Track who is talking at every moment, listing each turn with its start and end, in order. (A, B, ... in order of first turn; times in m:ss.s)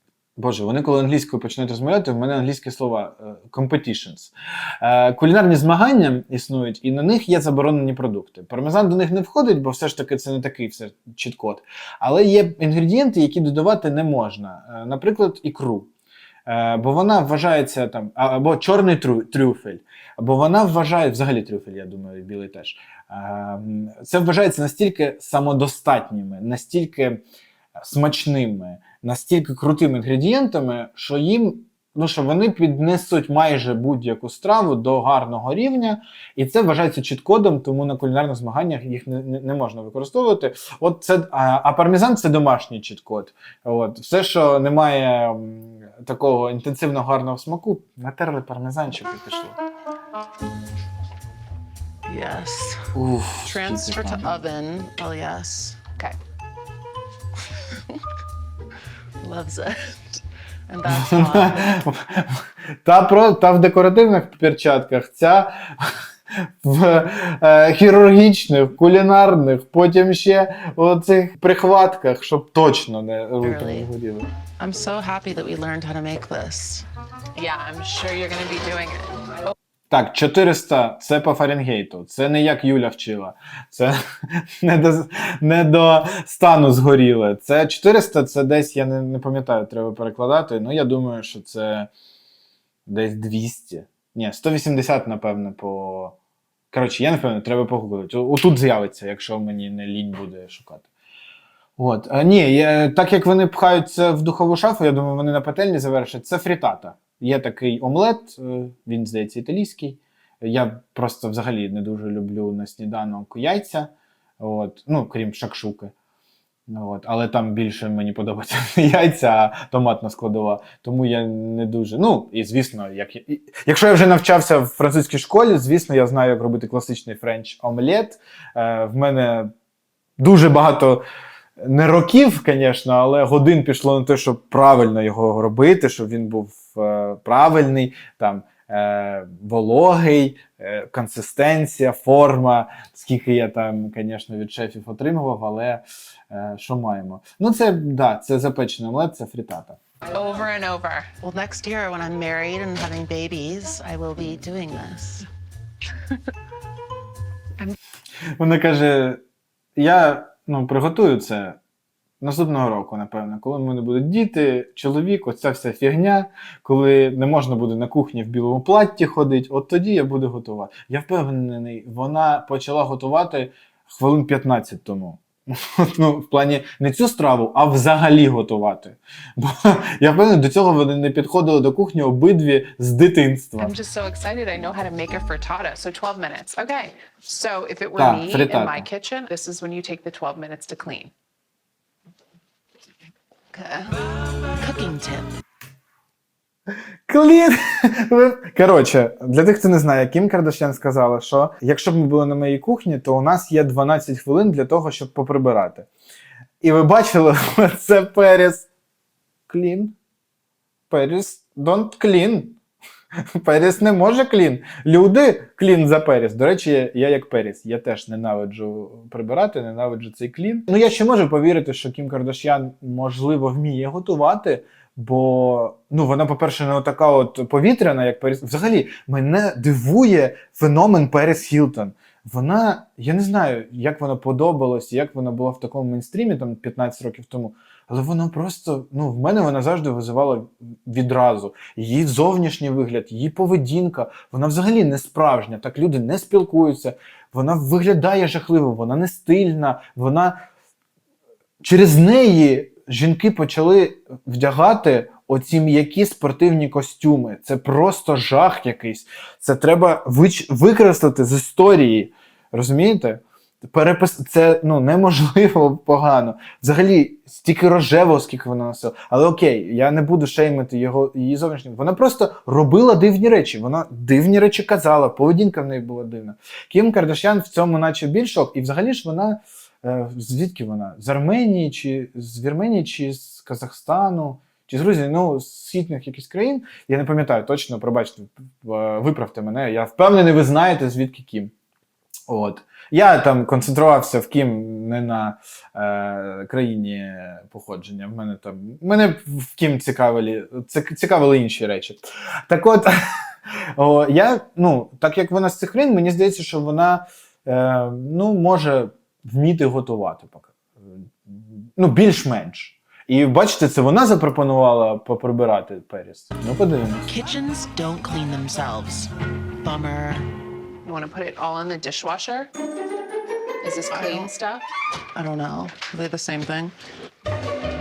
0:00.4-0:15.9 A
0:16.5-0:27.2 A
0:27.8-0:49.6 A
0:52.1-0:55.8 B
0:52.9-0:54.4 A
0:59.2-1:01.8 B
1:00.9-1:14.3 A
1:13.4-1:13.9 B
1:14.6-1:16.9 B
1:17.4-1:19.5 C
1:19.9-1:31.9 A
1:32.9-1:36.2 A
1:36.7-1:40.9 A
1:41.8-1:55.9 A
1:56.7-2:09.5 A
2:10.2-2:11.0 A
2:11.6-2:29.8 A
2:30.1-2:31.1 C
2:31.2-2:35.3 B
2:38.4-2:39.2 A
2:39.8-2:41.6 A
2:42.2-3:03.8 A
3:03.6-3:11.1 C
3:08.0-3:08.9 A
3:13.5-3:13.9 C
3:14.6-3:15.4 B
3:17.1-3:25.9 A
3:26.6-3:28.7 A
3:29.5-3:30.0 A
3:30.9-3:32.6 A
3:33.4-4:10.4 A
4:11.6-4:51.5 A
4:52.3-5:03.0 A
5:03.5-5:17.1 A
5:17.1-5:19.1 B
5:19.6-5:20.3 B
5:20.8-5:22.5 C
5:23.6-5:24.6 C
5:23.9-5:24.3 B
5:25.2-5:26.8 B